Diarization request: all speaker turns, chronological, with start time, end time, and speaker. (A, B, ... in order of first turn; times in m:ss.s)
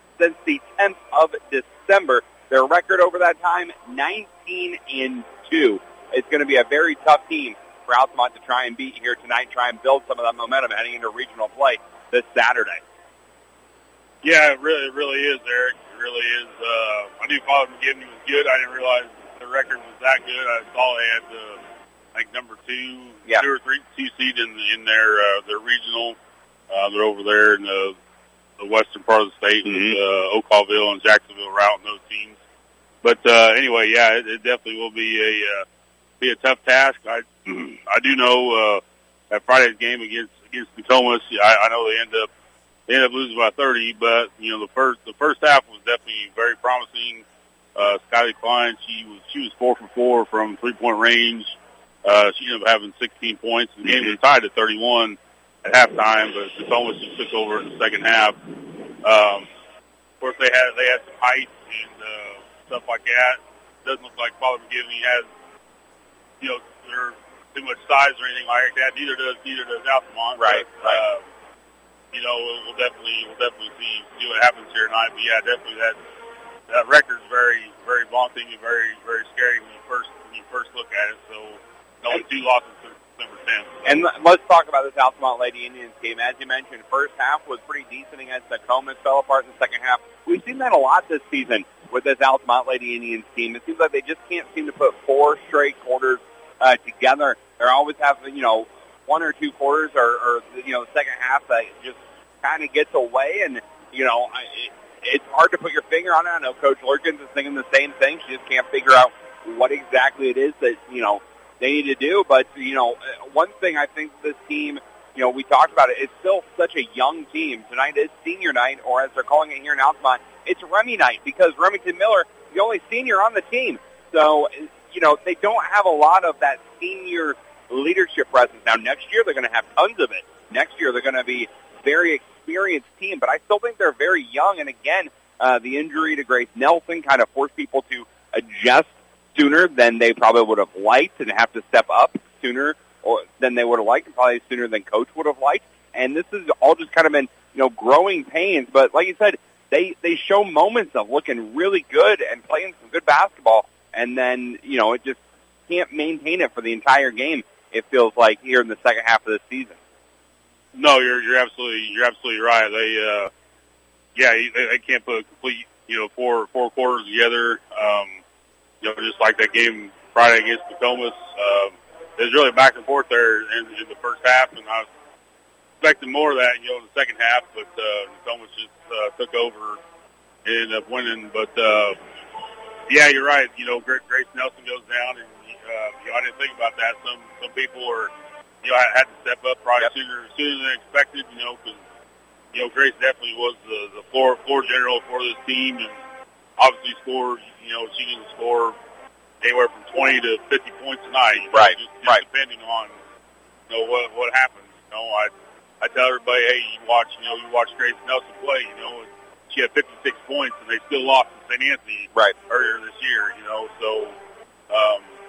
0:00.2-0:12.8 A
0:14.2-0:21.6 B
0:22.2-0:26.2 B
0:26.7-0:28.0 B
0:28.6-0:32.4 B
0:29.6-0:30.0 A
0:33.0-0:35.6 B
0:36.2-0:42.3 B
0:42.9-0:47.2 B
0:47.8-0:59.5 B
1:00.2-1:05.3 B
1:06.4-1:11.2 B
1:10.4-1:11.0 A
1:12.1-1:16.0 B
1:16.7-1:23.8 B
1:23.8-2:39.8 A
2:40.8-2:43.3 B
2:44.2-2:48.2 B
2:48.8-2:54.9 B
2:55.8-2:59.8 B
3:00.4-3:02.0 B
3:02.9-3:08.1 B
3:08.6-3:11.8 B
3:12.5-3:16.0 B
3:16.6-3:18.8 B
3:19.4-3:23.0 B
3:21.5-3:22.2 A
3:23.7-3:34.2 B
3:34.7-3:35.1 B